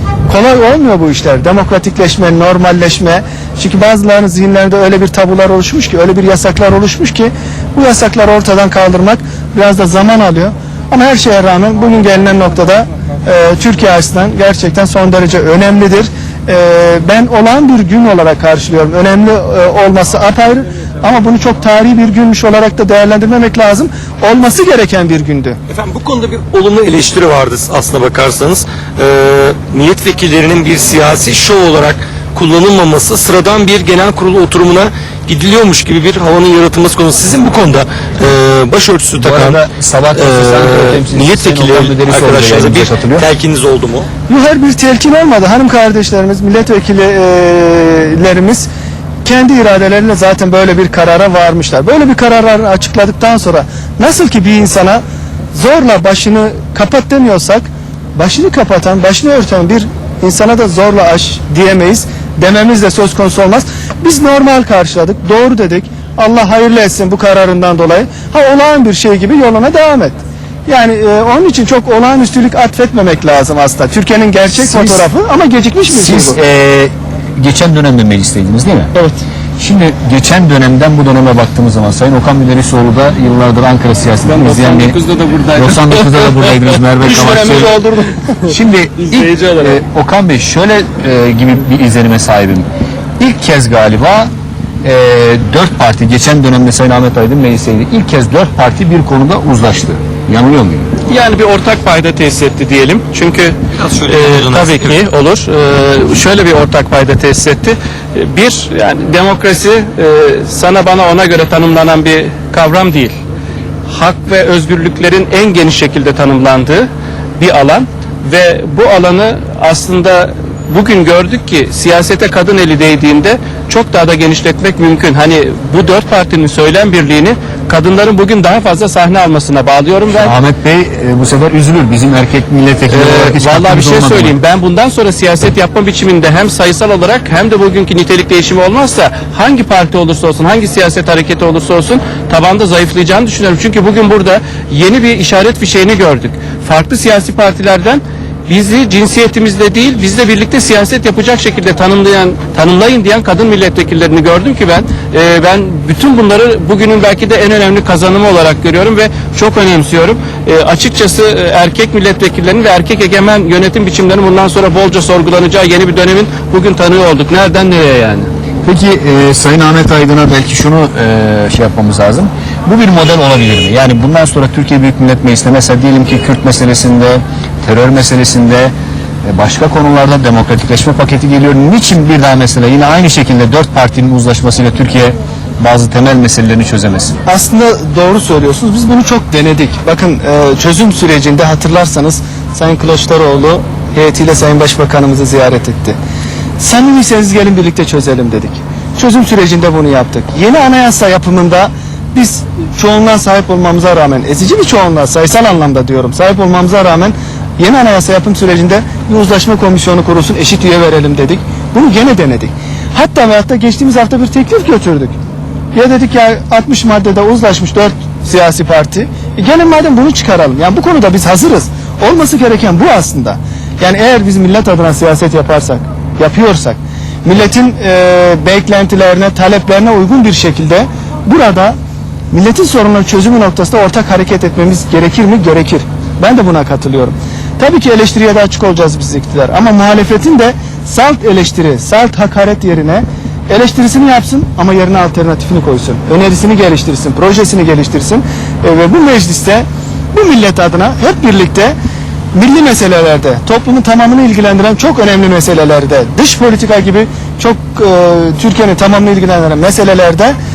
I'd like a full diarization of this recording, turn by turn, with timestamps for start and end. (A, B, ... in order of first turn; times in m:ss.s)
0:00.3-0:25.6 A
0:25.7-0:39.6 B
0:39.2-0:43.3 C
0:40.1-0:44.1 B
0:44.3-0:48.7 A
0:49.2-0:55.0 A
0:55.5-0:57.6 A
0:58.2-1:16.4 A
1:14.6-1:15.1 C
1:15.9-1:18.9 C
1:19.6-1:25.0 C
1:24.2-1:29.8 D
1:25.6-1:27.7 C
1:28.5-1:32.6 C
1:33.2-1:34.3 C
1:34.8-1:40.9 C
1:41.1-1:53.2 D
1:43.7-1:45.0 B
1:53.9-2:10.4 D
2:10.1-2:14.3 C
2:12.9-2:48.3 D
2:48.6-2:58.7 C
2:59.2-3:07.2 C
3:07.2-3:16.0 A
3:16.6-3:35.2 A
3:35.7-3:51.8 A
3:52.3-4:11.8 A
4:12.3-4:20.4 A